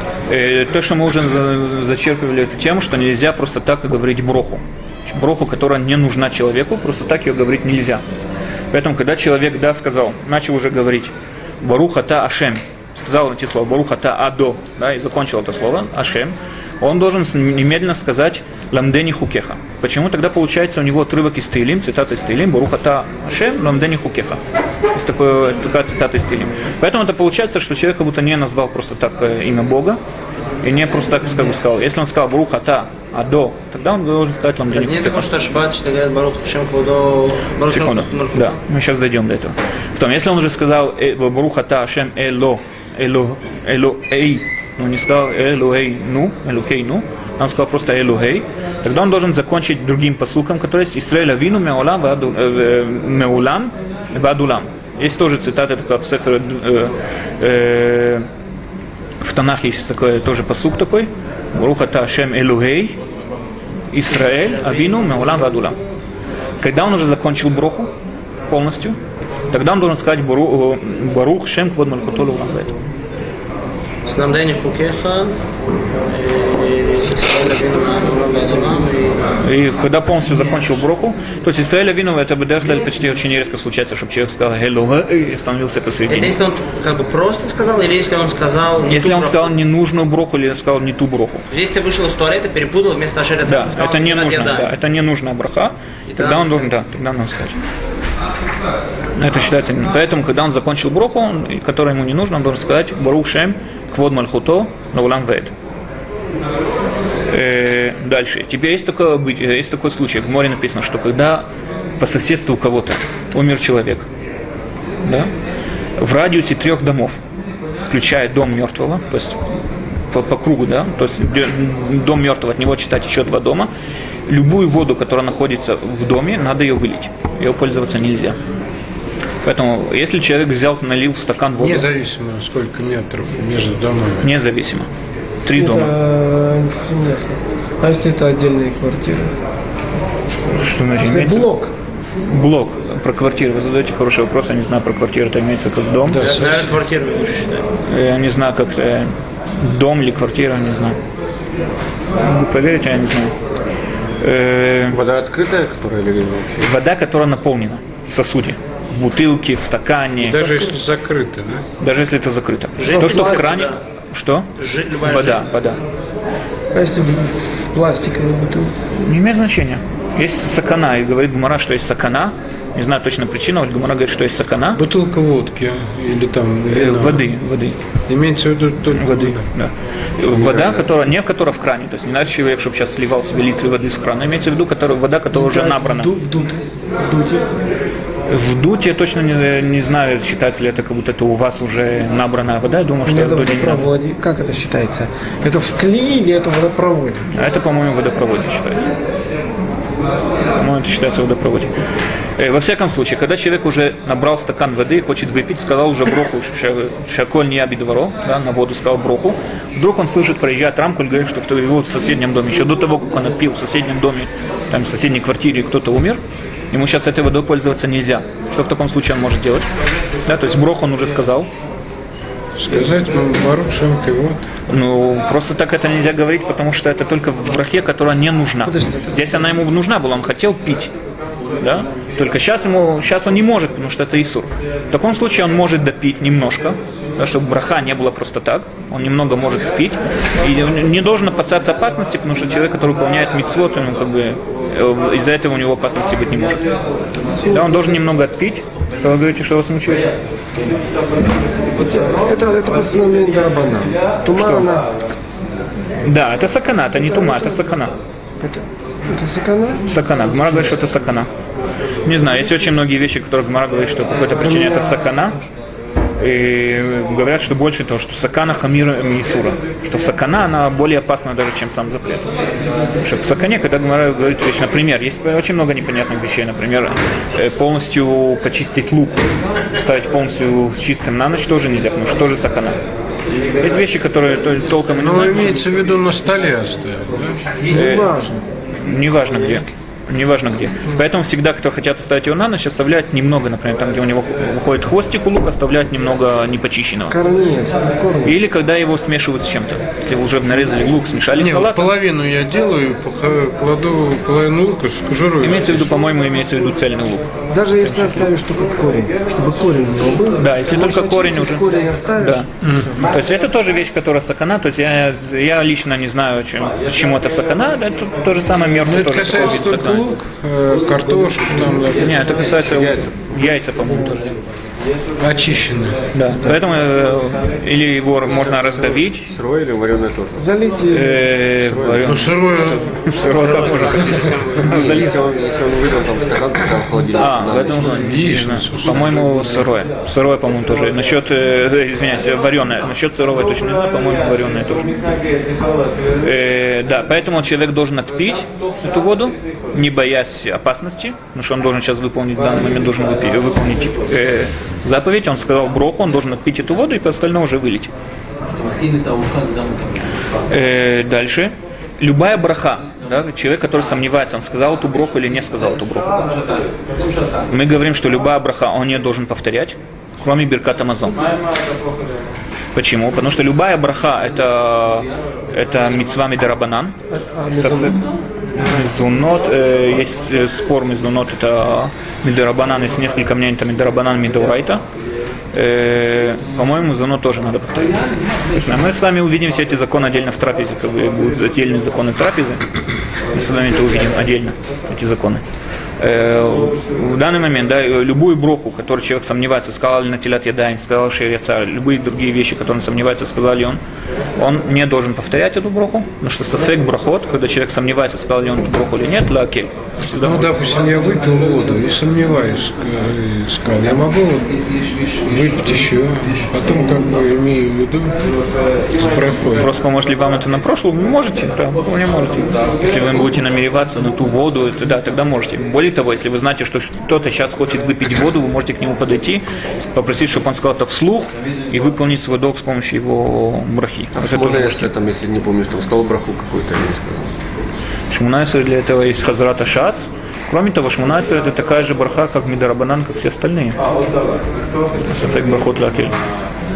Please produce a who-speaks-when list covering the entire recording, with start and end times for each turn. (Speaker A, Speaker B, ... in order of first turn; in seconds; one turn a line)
Speaker A: 0.3-8.0
Speaker A: 8.7-24.4
Speaker A: 24.9-30.0
Speaker A: 30.6-35.2
Speaker B: 34.7-38.5
Speaker A: 37.7-58.3
Speaker A: 59.2-63.0
Speaker A: 63.9-65.8
Speaker A: 66.6-67.9
Speaker A: 68.5-69.0
Speaker A: 69.5-72.7
Speaker B: 74.0-75.3
Speaker B: 76.1-79.2
Speaker A: 79.4-86.3
Speaker B: 86.1-89.5
Speaker A: 88.9-91.4
Speaker B: 91.5-94.7
Speaker A: 93.5-97.6
Speaker B: 96.1-96.7
Speaker A: 99.2-105.5
Speaker A: 107.3-111.5
Speaker A: 112.0-114.1
Speaker A: 115.0-115.3
Speaker A: 116.0-117.2
Speaker A: 117.9-119.4
Speaker A: 120.1-123.7
Speaker A: 124.3-128.4
Speaker A: 129.4-131.9
Speaker C: 131.6-134.3
Speaker A: 134.2-134.9
Speaker A: 135.4-135.9
Speaker D: 135.5-139.3
Speaker A: 140.5-141.5
Speaker D: 141.0-141.7
Speaker A: 142.2-146.2
Speaker C: 146.0-146.7
Speaker B: 146.2-147.7
Speaker A: 147.8-151.0
Speaker A: 152.2-153.3
Speaker A: 154.2-155.0
Speaker E: 154.9-156.7
Speaker A: 156.6-160.6
Speaker C: 160.2-161.6
Speaker A: 161.8-164.5
Speaker B: 162.8-163.8
Speaker B: 164.6-165.4
Speaker A: 165.0-165.8
Speaker D: 166.7-168.8
Speaker A: 168.9-174.8
Speaker C: 174.8-177.3
Speaker A: 176.7-177.8
Speaker C: 178.1-179.5
Speaker A: 178.9-186.1
Speaker E: 180.3-180.9
Speaker D: 185.3-187.6
Speaker A: 188.3-193.9
Speaker D: 193.0-197.3
Speaker A: 197.3-198.9
Speaker A: 200.6-201.7
Speaker A: 202.4-216.2
Speaker A: 216.7-219.7
Speaker A: 220.2-221.5
Speaker C: 222.6-224.4
Speaker A: 224.7-230.9
Speaker D: 228.6-229.4
Speaker A: 231.6-246.6
Speaker A: 247.5-250.1
Speaker D: 251.7-254.9
Speaker A: 254.3-254.7
Speaker A: 256.0-257.9
Speaker D: 257.2-257.4
Speaker D: 258.4-259.9
Speaker A: 259.8-261.3
Speaker A: 262.0-265.4
Speaker D: 264.4-265.0
Speaker A: 266.2-272.3
Speaker A: 273.0-282.8
Speaker A: 283.6-285.6
Speaker C: 285.0-287.4
Speaker D: 287.7-288.3
Speaker A: 287.7-297.2
Speaker D: 297.1-298.4
Speaker A: 298.2-301.9
Speaker C: 301.4-305.9
Speaker A: 305.4-307.2
Speaker D: 307.5-313.1
Speaker A: 307.8-308.3
Speaker A: 310.4-311.7
Speaker A: 312.2-320.0
Speaker C: 312.6-312.9
Speaker C: 318.8-322.3
Speaker A: 321.9-324.3
Speaker E: 322.6-323.1
Speaker C: 325.2-326.0
Speaker A: 326.1-329.3
Speaker E: 328.3-330.5
Speaker D: 330.4-331.3
Speaker A: 330.9-335.2
Speaker E: 331.6-332.1
Speaker C: 332.0-332.9
Speaker B: 333.4-334.6
Speaker E: 334.6-338.0
Speaker A: 337.2-345.0
Speaker C: 337.9-339.1
Speaker A: 346.2-357.9
Speaker A: 360.5-366.2
Speaker A: 367.5-371.3
Speaker A: 372.7-377.0
Speaker D: 377.1-378.0
Speaker A: 377.5-378.1
Speaker A: 378.6-384.8
Speaker A: 385.5-392.6
Speaker A: 393.3-395.4
Speaker A: 396.0-403.8
Speaker A: 404.4-410.5
Speaker C: 410.2-418.1
Speaker C: 418.9-419.7
Speaker A: 419.6-434.9
Speaker E: 434.1-437.4
Speaker A: 438.1-443.8
Speaker A: 445.0-446.1